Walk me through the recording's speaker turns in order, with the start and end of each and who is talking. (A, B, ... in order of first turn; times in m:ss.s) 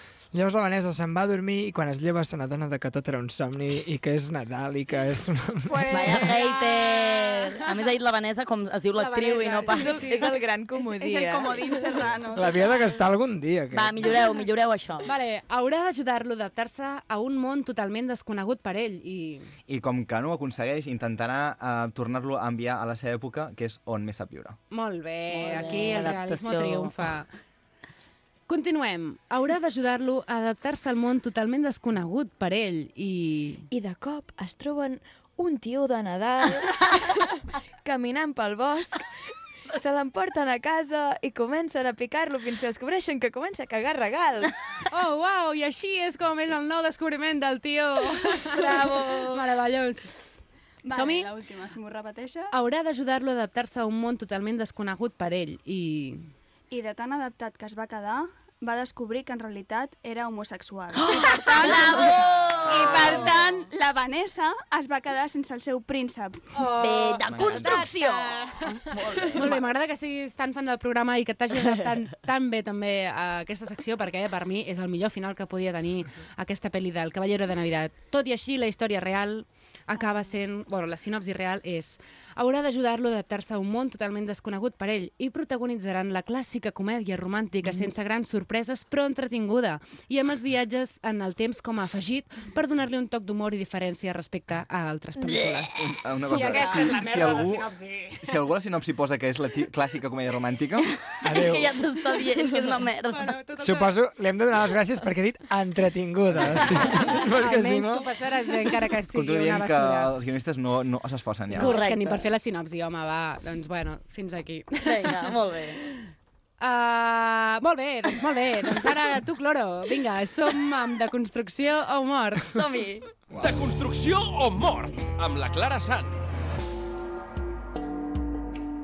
0:00.3-0:06.2 A
0:05.7-0:07.4 B
0:05.9-0:10.2 C
0:09.0-0:10.3 B
0:09.8-0:11.6 D
0:10.7-0:12.9 E
0:12.3-0:14.2 A
0:13.7-0:15.1 C
0:15.0-0:19.5 B
0:19.7-0:24.6 F
0:24.7-0:27.3 B
0:25.3-0:26.9 C
0:28.5-0:33.6 B
0:33.7-0:39.0 D
0:39.7-0:44.5 D
0:44.9-0:50.3 B
0:48.6-0:49.2 C
0:48.6-0:49.4 E
0:50.8-0:52.5 E
0:50.9-0:51.3 B
0:52.5-0:56.2 B
0:56.7-1:06.5 E
1:00.9-1:03.5 C
1:02.9-1:03.3 F
1:06.5-1:38.3 B
1:06.7-1:09.6 C
1:07.3-1:07.9 F
1:35.2-1:35.5 C
1:35.8-1:37.7 F
1:38.2-1:40.9 F
1:41.2-1:41.8 A
1:41.2-1:43.3 C
1:42.6-1:44.0 B
1:43.6-1:48.1 A
1:46.9-1:50.1 B
1:49.1-1:51.7 F
1:51.5-1:52.3 C
1:51.5-1:55.3 B
1:54.8-1:56.0 C
1:56.6-2:02.6 B
2:02.5-2:03.1 C
2:03.4-2:06.2 G